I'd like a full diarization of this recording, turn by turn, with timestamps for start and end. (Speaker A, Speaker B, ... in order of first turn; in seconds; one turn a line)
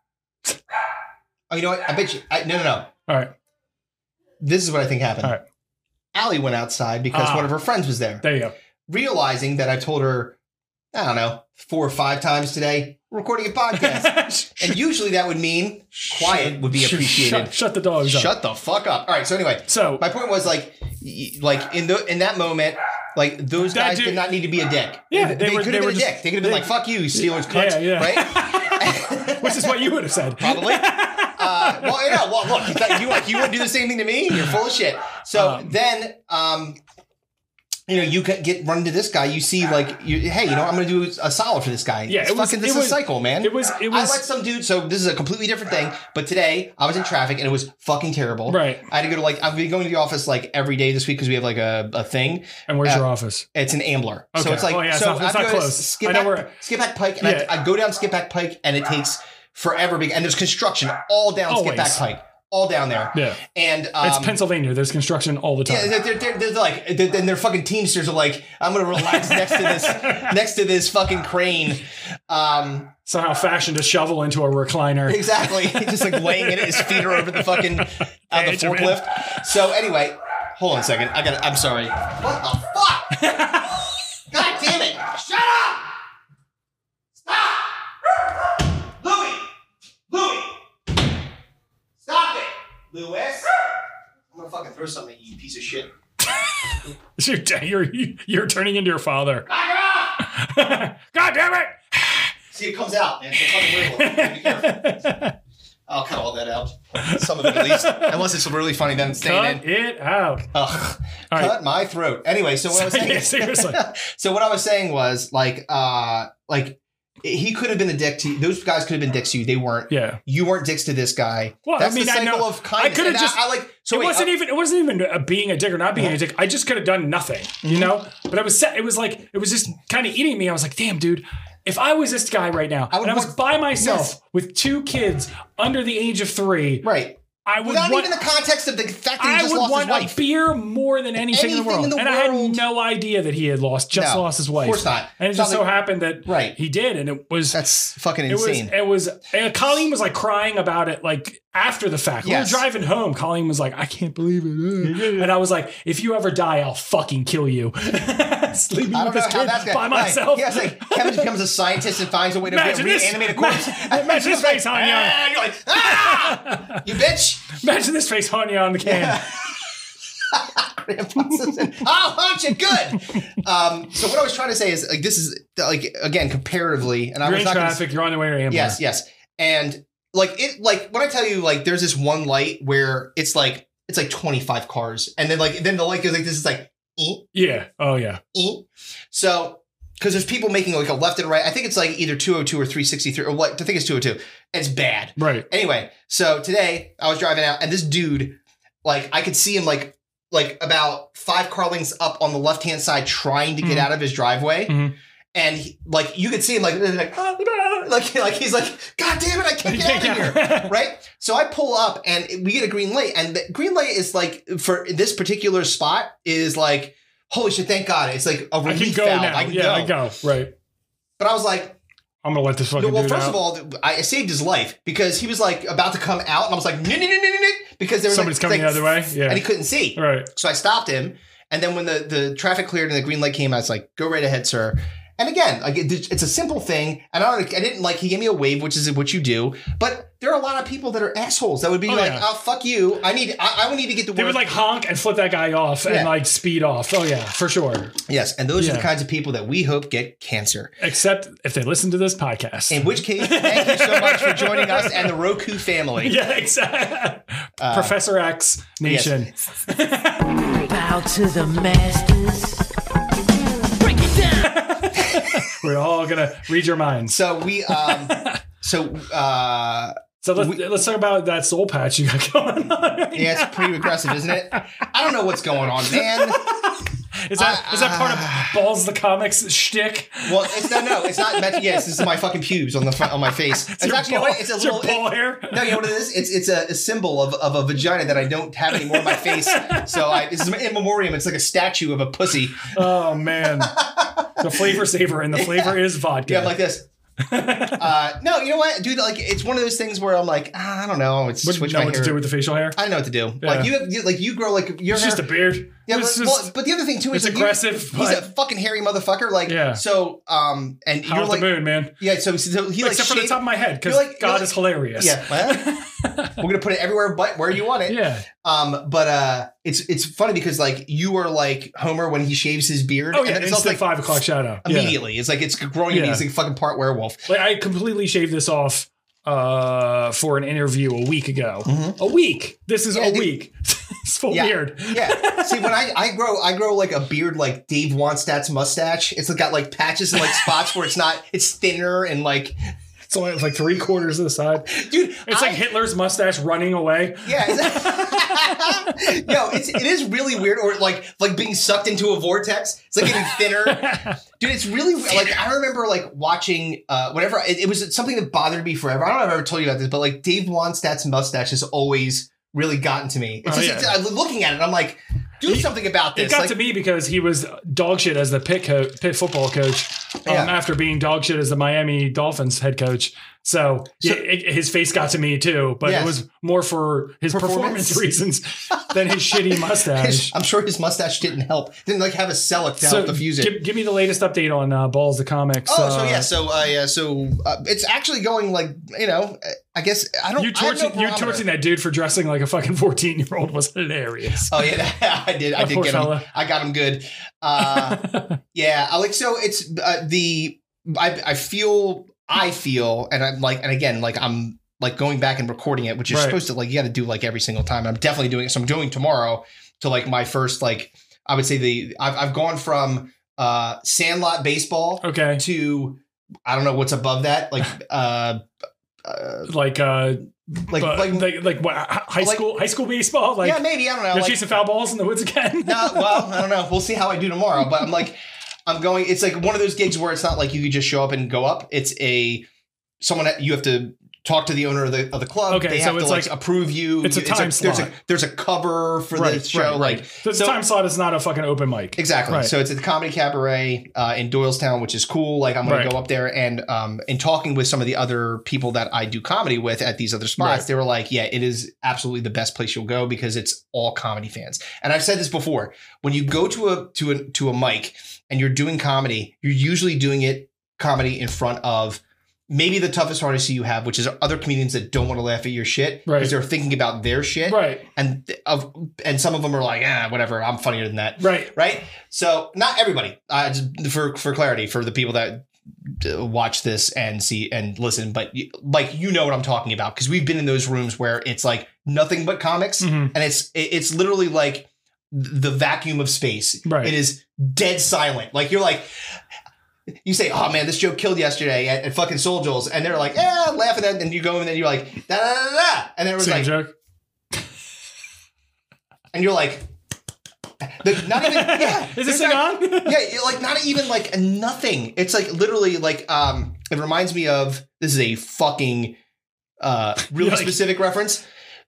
Speaker A: 1.5-2.9
Speaker B: 3.1-3.3
Speaker A: 4.4-5.3
Speaker A: 6.1-8.2
Speaker B: 7.1-7.5
Speaker B: 8.2-8.5
Speaker A: 8.9-10.4
Speaker A: 10.9-36.8
Speaker B: 13.7-14.8
Speaker B: 15.9-18.3
Speaker B: 19.7-20.0
Speaker B: 23.6-24.2
Speaker B: 25.1-33.6
Speaker B: 35.3-35.7
Speaker A: 37.9-64.4
Speaker B: 42.1-44.2
Speaker B: 48.5-48.8
Speaker B: 52.7-53.5
Speaker B: 54.3-56.5
Speaker B: 57.2-57.5
Speaker B: 61.5-62.0
Speaker B: 63.1-63.4
Speaker B: 64.0-66.0
Speaker A: 65.7-72.9
Speaker B: 69.0-70.3
Speaker B: 73.0-79.4
Speaker A: 75.0-83.1
Speaker B: 83.1-83.8
Speaker A: 84.3-85.9
Speaker A: 87.2-87.8
Speaker A: 89.0-89.5
Speaker A: 90.1-90.6
Speaker A: 92.0-93.5
Speaker A: 94.3-95.9
Speaker B: 97.2-99.5
Speaker A: 99.5-100.2
Speaker B: 100.2-102.3
Speaker A: 102.5-105.2
Speaker B: 103.5-105.3
Speaker A: 105.9-109.6
Speaker B: 107.0-108.2
Speaker B: 109.2-110.5
Speaker A: 110.5-124.3
Speaker B: 111.3-111.6
Speaker B: 112.7-113.8
Speaker B: 119.9-120.2
Speaker B: 121.6-136.8
Speaker A: 127.6-127.9
Speaker A: 132.9-134.1
Speaker A: 136.8-140.2
Speaker B: 137.4-138.2
Speaker B: 139.2-161.3
Speaker A: 141.2-142.6
Speaker A: 143.9-145.7
Speaker A: 146.2-146.6
Speaker A: 147.5-148.7
Speaker A: 152.2-152.6
Speaker A: 154.8-155.3
Speaker A: 158.9-167.4
Speaker B: 162.4-166.8
Speaker B: 167.5-169.4
Speaker A: 168.8-169.5
Speaker A: 170.3-177.9
Speaker B: 177.2-178.8
Speaker A: 178.5-187.3
Speaker B: 187.3-188.2
Speaker A: 188.3-204.8
Speaker B: 195.2-195.5
Speaker B: 203.6-203.9
Speaker B: 204.7-204.9
Speaker A: 205.3-220.0
Speaker B: 209.6-210.7
Speaker B: 218.6-220.5
Speaker A: 221.2-221.8
Speaker B: 222.2-223.4
Speaker A: 222.8-244.5
Speaker B: 228.1-230.3
Speaker B: 241.8-242.3
Speaker B: 244.1-247.9
Speaker A: 245.8-246.2
Speaker A: 248.1-250.7
Speaker B: 248.6-248.9
Speaker B: 250.8-255.1
Speaker A: 252.7-256.2
Speaker B: 256.0-260.3
Speaker A: 257.6-258.0
Speaker A: 258.8-259.3
Speaker C: 260.6-262.7
Speaker C: 263.8-264.4
Speaker B: 264.4-267.1
Speaker A: 267.1-270.6
Speaker B: 267.7-268.4
Speaker B: 270.2-274.8
Speaker A: 273.1-276.5
Speaker B: 275.9-282.0
Speaker A: 277.3-278.6
Speaker A: 280.2-294.8
Speaker B: 283.5-285.9
Speaker B: 288.7-290.3
Speaker B: 292.7-293.8
Speaker B: 294.4-296.6
Speaker A: 295.3-296.9
Speaker B: 297.2-297.9
Speaker A: 297.7-302.2
Speaker B: 301.4-302.8
Speaker A: 302.7-315.7
Speaker B: 303.4-303.7
Speaker B: 304.9-306.5
Speaker B: 307.1-308.3
Speaker B: 309.5-309.8
Speaker B: 311.0-311.9
Speaker B: 312.8-316.4
Speaker A: 316.4-323.9
Speaker B: 317.9-318.3
Speaker B: 323.1-325.0
Speaker A: 324.6-327.3
Speaker B: 325.9-326.2
Speaker B: 327.3-335.7
Speaker A: 331.6-332.0
Speaker A: 332.9-333.3
Speaker A: 334.3-342.6
Speaker B: 343.1-349.0
Speaker A: 344.7-345.6
Speaker A: 347.2-366.6
Speaker B: 353.1-354.2
Speaker B: 363.4-364.0
Speaker B: 365.4-380.3
Speaker A: 370.2-370.6
Speaker A: 375.8-376.2
Speaker A: 377.3-378.1
Speaker A: 378.7-383.6
Speaker B: 382.8-386.3
Speaker A: 385.6-391.4
Speaker B: 390.4-394.6
Speaker A: 394.5-418.4
Speaker B: 395.6-396.3
Speaker B: 397.6-398.4
Speaker B: 406.1-406.4
Speaker B: 415.0-415.4
Speaker A: 419.0-419.5
Speaker B: 419.5-426.4
Speaker A: 420.7-421.3
Speaker A: 422.2-422.5
Speaker A: 423.4-424.4
Speaker A: 425.6-432.5
Speaker A: 433.0-440.6
Speaker B: 435.5-436.3
Speaker B: 437.0-437.9
Speaker B: 439.1-442.5
Speaker A: 441.9-488.9
Speaker B: 445.6-445.9
Speaker B: 450.4-450.6
Speaker B: 466.1-466.4
Speaker B: 467.4-467.9
Speaker B: 471.2-471.5
Speaker B: 482.8-483.1
Speaker B: 486.6-486.9
Speaker A: 490.0-496.5
Speaker B: 496.2-496.7
Speaker A: 499.1-499.6
Speaker A: 500.6-509.0
Speaker B: 501.1-503.0
Speaker A: 509.6-511.2
Speaker B: 510.1-510.6